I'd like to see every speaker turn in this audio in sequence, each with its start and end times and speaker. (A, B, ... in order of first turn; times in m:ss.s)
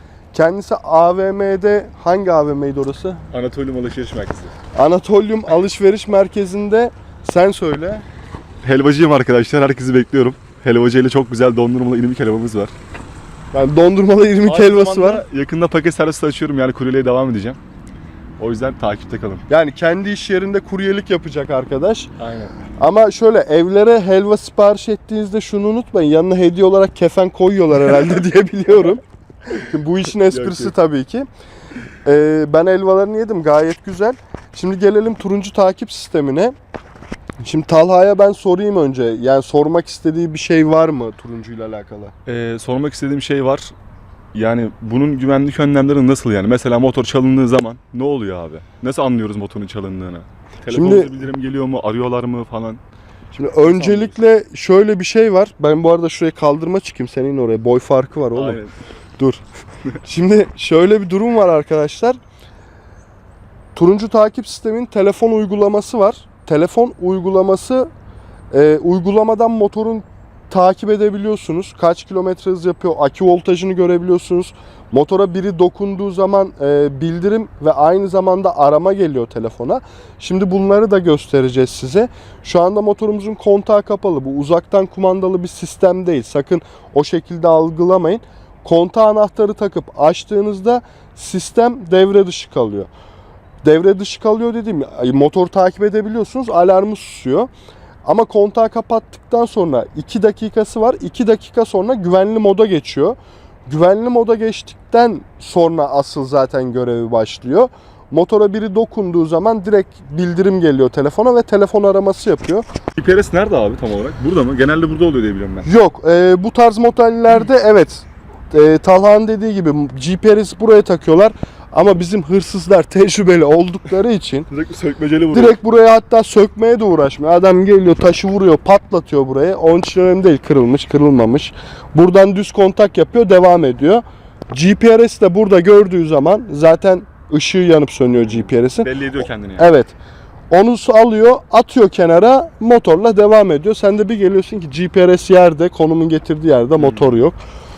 0:00.3-0:03.2 A
0:03.3-0:04.5 B
0:04.7-0:08.0 A
0:08.6-0:12.7 B
0:13.5-0:15.2 A
0:14.4-0:17.6 B
0:18.4-0:19.4 B
0:19.5-0:22.1 A
0:22.2-0:22.5 B
0:22.8-0:31.3 A
0:30.2-0:30.7 B
0:32.0-0:36.5 A
0:37.4-0:42.1 A
0:42.2-0:43.7 B
0:44.3-0:52.8 B
0:50.7-0:51.1 A
0:53.3-0:58.6 A
0:53.6-0:54.1 B
0:58.3-0:58.7 B
1:00.0-1:02.2 A
1:03.7-1:07.9 A
1:08.5-1:32.9 A
1:33.6-1:37.5 A
1:38.0-1:43.2 A
1:43.7-1:52.6 A
1:53.0-1:55.7 B
1:55.6-2:04.5 A
2:04.5-2:05.6 B
2:05.3-2:18.9 A
2:18.8-2:19.7 B
2:19.6-2:19.9 A
2:20.5-2:27.4 A
2:26.7-2:27.1 B